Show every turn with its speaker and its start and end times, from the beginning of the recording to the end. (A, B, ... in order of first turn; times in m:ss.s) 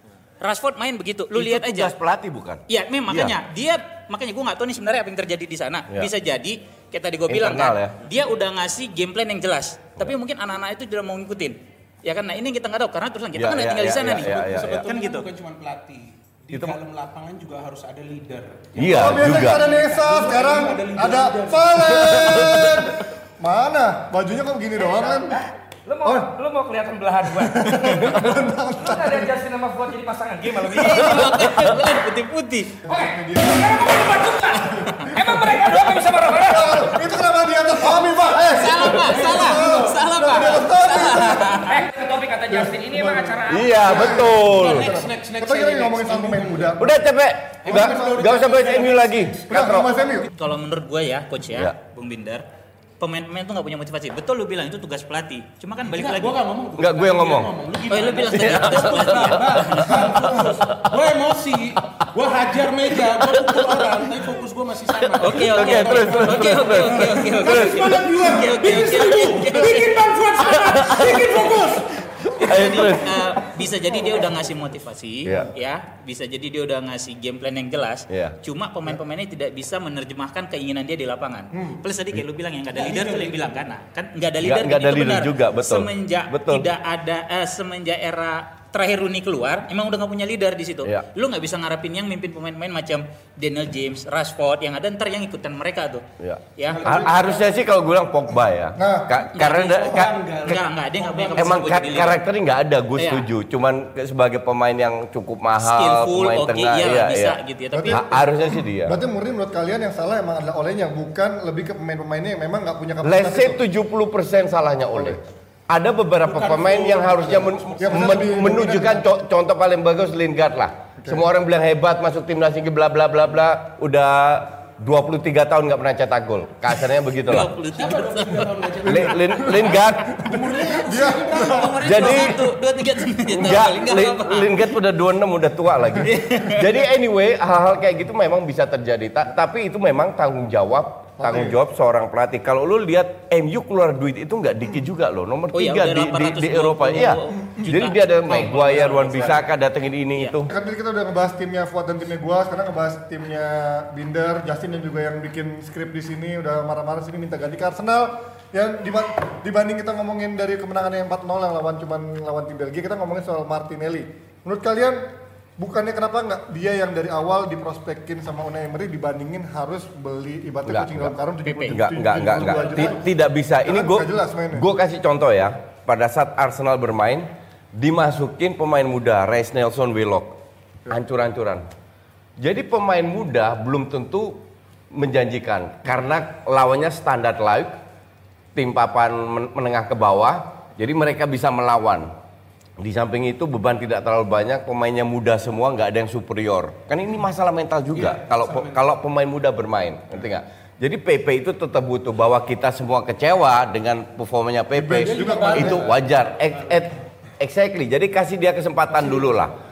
0:00.4-0:01.9 A
0:01.3-0:03.3 B
0:02.7-0:15.2 A
0:07.3-0:08.0 B
0:13.4-0:14.7 B
0:14.0-0:22.4 C
0:18.8-0:19.6 B
0:18.8-0:25.4 D
0:22.0-0:22.9 B
0:25.0-0:31.7 E
0:26.0-0:26.3 D
0:27.3-0:29.3 D
0:30.7-0:32.8 A
0:32.8-0:35.8 D
0:32.8-0:37.0 E
0:36.4-0:41.7 D
0:38.2-0:41.8 A
0:38.9-0:40.0 C
0:41.6-0:44.0 E
0:42.5-0:47.0 D
0:43.5-0:44.9 B
0:44.1-0:46.8 C
0:46.8-0:49.9 B
0:47.6-0:50.3 C
0:47.7-0:48.3 D
0:49.5-0:50.3 D
0:50.4-0:52.4 A
0:53.0-0:56.4 A
0:55.9-1:11.9 C
0:56.8-0:57.5 B
0:57.9-1:00.7 A
0:58.3-1:01.0 B
1:03.2-1:04.0 B
1:05.0-1:08.3 B
1:05.2-1:09.9 A
1:10.4-1:11.7 B
1:12.2-1:13.2 B
1:12.4-1:36.0 A
1:18.1-1:18.3 B
1:21.5-1:21.8 D
1:22.7-1:23.6 C
1:24.4-1:26.7 B
1:36.2-1:40.6 B
1:36.6-1:37.0 A
1:36.8-1:37.1 D
1:36.8-1:37.4 C
1:38.8-1:39.2 D
1:39.4-1:42.2 A
1:39.4-1:42.0 C
1:41.4-1:49.0 B
1:43.0-1:43.3 A
1:45.6-1:48.3 A
1:48.8-1:53.6 D
1:53.0-2:07.5 B
1:54.9-1:55.2 D
1:56.2-1:58.7 C
1:57.8-1:59.0 D
2:07.2-2:08.6 A
2:07.7-2:12.3 C
2:08.8-2:10.1 B
2:08.9-2:11.8 D
2:11.4-2:14.6 A
2:11.8-2:12.5 B
2:13.2-2:30.5 B
2:16.0-2:16.7 A
2:21.2-2:21.6 D
2:25.5-2:29.5 A
2:30.5-2:45.0 D
2:45.6-2:53.1 D
2:50.7-2:51.1 B
2:51.4-2:51.8 A
2:51.7-3:00.4 B
2:53.6-2:54.6 D
3:00.9-3:01.6 B
3:02.4-3:07.7 B
3:08.5-3:12.1 B
3:12.8-3:29.5 B
3:17.9-3:18.9 C
3:24.8-3:25.9 D
3:24.8-3:26.8 C
3:28.9-3:29.4 C